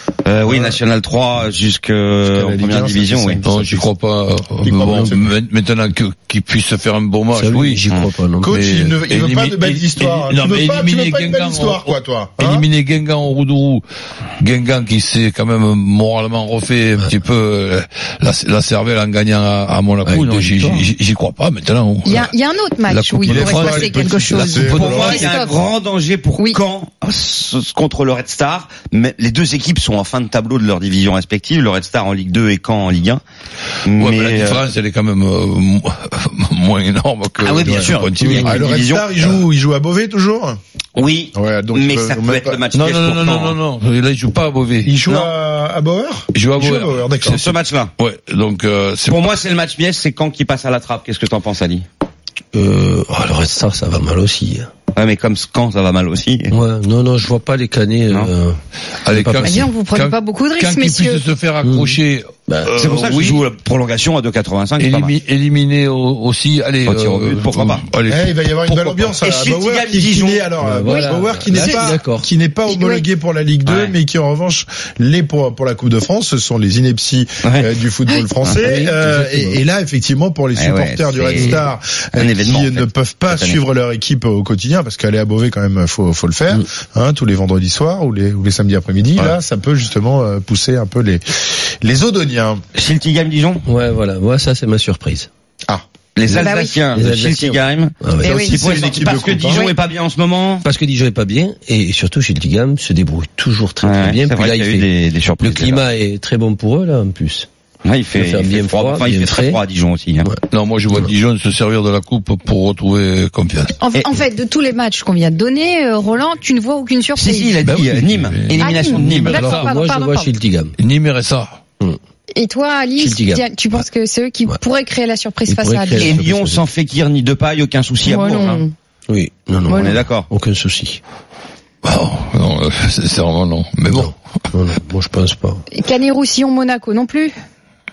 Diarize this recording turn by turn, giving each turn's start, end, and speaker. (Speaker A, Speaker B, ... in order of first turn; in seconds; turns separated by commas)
Speaker A: 0.2-3.4, Speaker B: 0.5-0.8, Speaker B: 2.2-3.9, Speaker C: 3.4-7.8, Speaker B: 4.6-5.3, Speaker D: 4.9-5.2, Speaker D: 7.3-8.6, Speaker B: 8.4-12.7, Speaker C: 8.5-13.8, Speaker C: 14.4-22.3, Speaker D: 20.0-20.9, Speaker E: 22.1-25.6, Speaker C: 22.9-25.3, Speaker B: 23.3-25.2, Speaker A: 24.8-33.2, Speaker A: 33.9-34.6, Speaker C: 34.0-38.6, Speaker A: 37.4-39.4, Speaker B: 37.6-40.6, Speaker A: 41.0-43.6, Speaker B: 41.3-42.6, Speaker C: 42.8-44.9, Speaker B: 44.8-47.4, Speaker A: 45.1-45.3, Speaker C: 46.3-49.3, Speaker A: 47.3-47.9, Speaker A: 49.1-51.9, Speaker D: 52.5-54.7, Speaker A: 55.0-56.5, Speaker D: 56.5-59.6, Speaker C: 59.0-63.4, Speaker E: 59.4-61.2, Speaker D: 61.6-62.8, Speaker A: 62.8-65.1, Speaker C: 64.8-69.1, Speaker A: 66.9-67.8, Speaker B: 68.1-92.6, Speaker A: 69.2-70.5, Speaker D: 70.6-72.3, Speaker E: 72.7-73.0, Speaker A: 73.7-74.0, Speaker A: 77.4-77.7, Speaker D: 78.6-79.6, Speaker A: 80.5-81.6, Speaker D: 81.4-81.6, Speaker A: 82.2-83.6, Speaker A: 92.8-93.6, Speaker D: 93.7-95.3, Speaker A: 96.2-100.7, Speaker E: 96.3-96.8, Speaker D: 96.3-98.5, Speaker E: 98.2-98.5, Speaker B: 98.4-99.7, Speaker E: 99.5-99.8, Speaker D: 100.6-104.9, Speaker A: 103.8-105.8, Speaker D: 105.4-107.5, Speaker A: 107.8-110.3, Speaker D: 108.1-109.6, Speaker D: 110.2-111.1, Speaker C: 110.5-113.7, Speaker E: 113.8-117.5, Speaker A: 117.2-119.4, Speaker C: 117.6-119.8, Speaker E: 118.6-120.3, Speaker D: 119.4-120.8, Speaker C: 120.8-121.6, Speaker E: 122.3-126.1, Speaker D: 123.0-123.4, Speaker D: 125.5-126.6, Speaker A: 126.0-128.6, Speaker E: 128.1-128.7, Speaker D: 129.1-131.0, Speaker E: 129.7-130.0, Speaker A: 129.7-130.3, Speaker C: 131.8-134.1, Speaker D: 133.9-135.6, Speaker E: 135.7-137.3